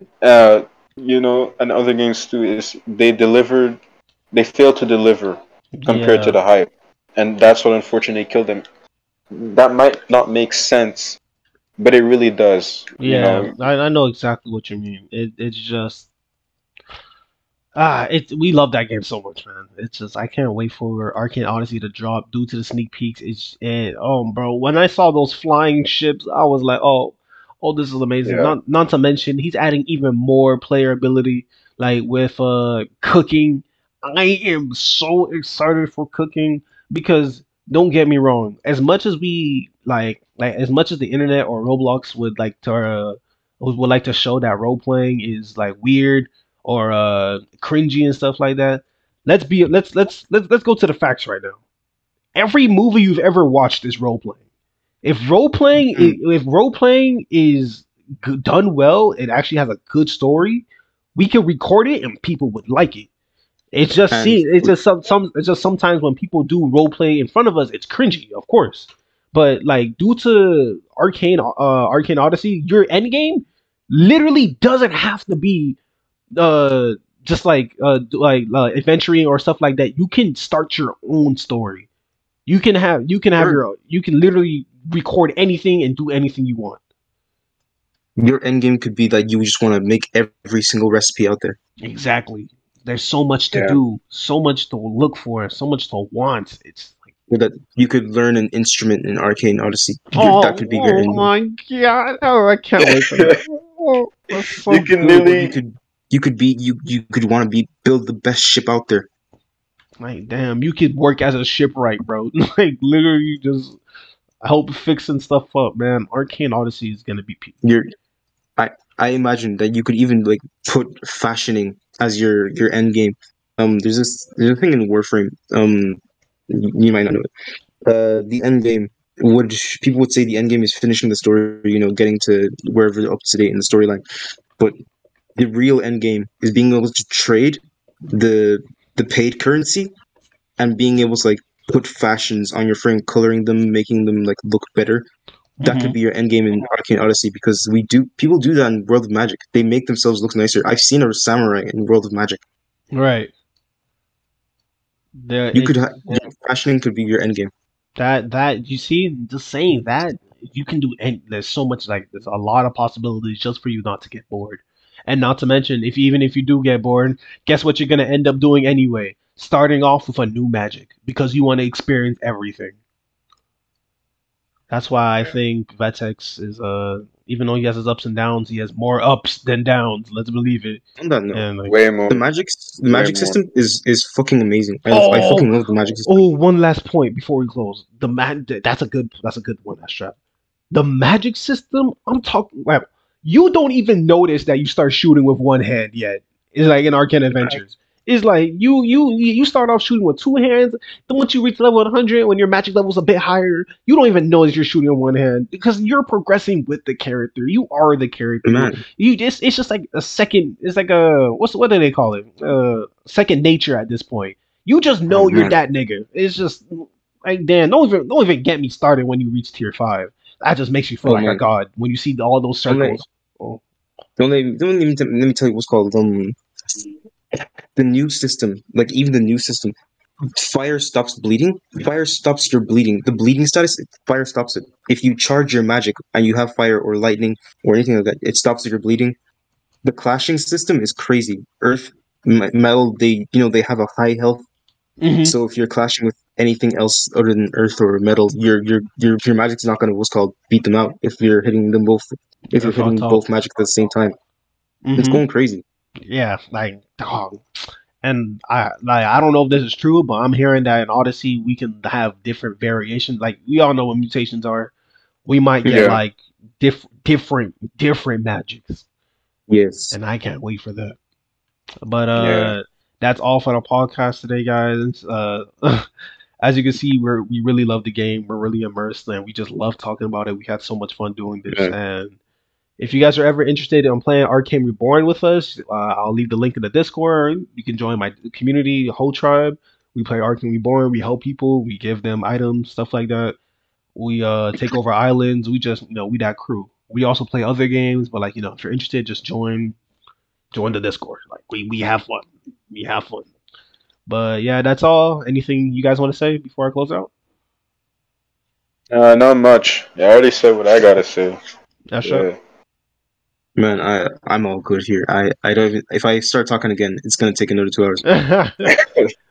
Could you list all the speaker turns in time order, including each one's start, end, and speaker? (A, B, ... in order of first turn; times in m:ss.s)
0:00.2-0:03.8 A
0:04.3-0:08.6 A
0:05.8-0:06.4 B
0:09.3-0:11.2 A
0:11.8-0:13.5 A
0:13.0-0:16.1 B
0:17.8-0:51.6 B
0:28.2-0:28.6 A
0:52.4-0:54.4 B
0:55.0-1:03.1 B
1:03.7-1:15.8 B
1:04.1-1:04.7 C
1:16.4-1:21.9 B
1:22.5-1:26.8 B
1:28.2-1:31.6 C
1:31.8-1:37.0 B
1:33.5-1:33.8 A
1:37.3-1:41.3 C
1:40.2-1:45.0 B
1:43.0-1:43.4 A
1:44.7-1:45.5 A
1:45.0-1:49.1 C
1:50.0-1:53.8 B
1:54.4-1:57.5 B
1:57.6-1:57.9 C
1:58.6-2:07.2 C
2:07.8-2:14.0 C
2:15.4-2:19.9 C
2:20.6-2:25.1 C
2:25.6-2:26.0 B
2:25.6-2:32.4 C
2:32.9-2:33.3 B
2:35.2-2:36.2 B
2:35.5-2:37.5 C
2:38.0-2:52.8 B
2:54.7-3:00.8 B
3:01.0-3:01.4 C
3:01.3-3:01.7 B
3:01.6-3:02.2 A
3:02.1-3:06.2 C
3:02.9-3:03.4 A
3:04.9-3:05.5 B
3:05.1-3:05.4 A
3:06.1-3:10.2 B
3:10.7-3:43.6 B
3:28.4-3:28.8 C
3:35.1-3:35.5 C
3:41.0-3:41.4 C
3:42.7-3:43.0 C
3:44.2-3:46.9 C
3:47.7-3:49.7 C
3:50.3-3:59.2 C
3:59.8-4:04.4 C
4:05.0-4:05.4 B
4:05.2-4:14.1 C
4:12.6-4:13.2 B
4:14.8-4:15.2 B
4:15.0-4:15.6 C
4:16.1-4:24.7 B
4:25.2-4:28.8 B
4:25.6-4:26.0 C
4:25.7-4:26.0 A
4:29.5-4:30.0 C
4:29.9-4:31.0 B
4:31.8-4:35.9 B
4:32.2-4:32.5 A
4:36.4-4:42.2 B
4:41.5-4:41.7 C
4:42.8-4:53.4 B
4:54.0-4:59.8 B
5:00.5-5:03.3 B
5:04.1-5:07.1 B
5:08.9-5:11.4 A
5:11.9-5:12.3 B
5:12.0-5:12.4 A
5:13.6-5:18.0 C
5:18.1-5:18.6 B
5:18.7-5:19.1 A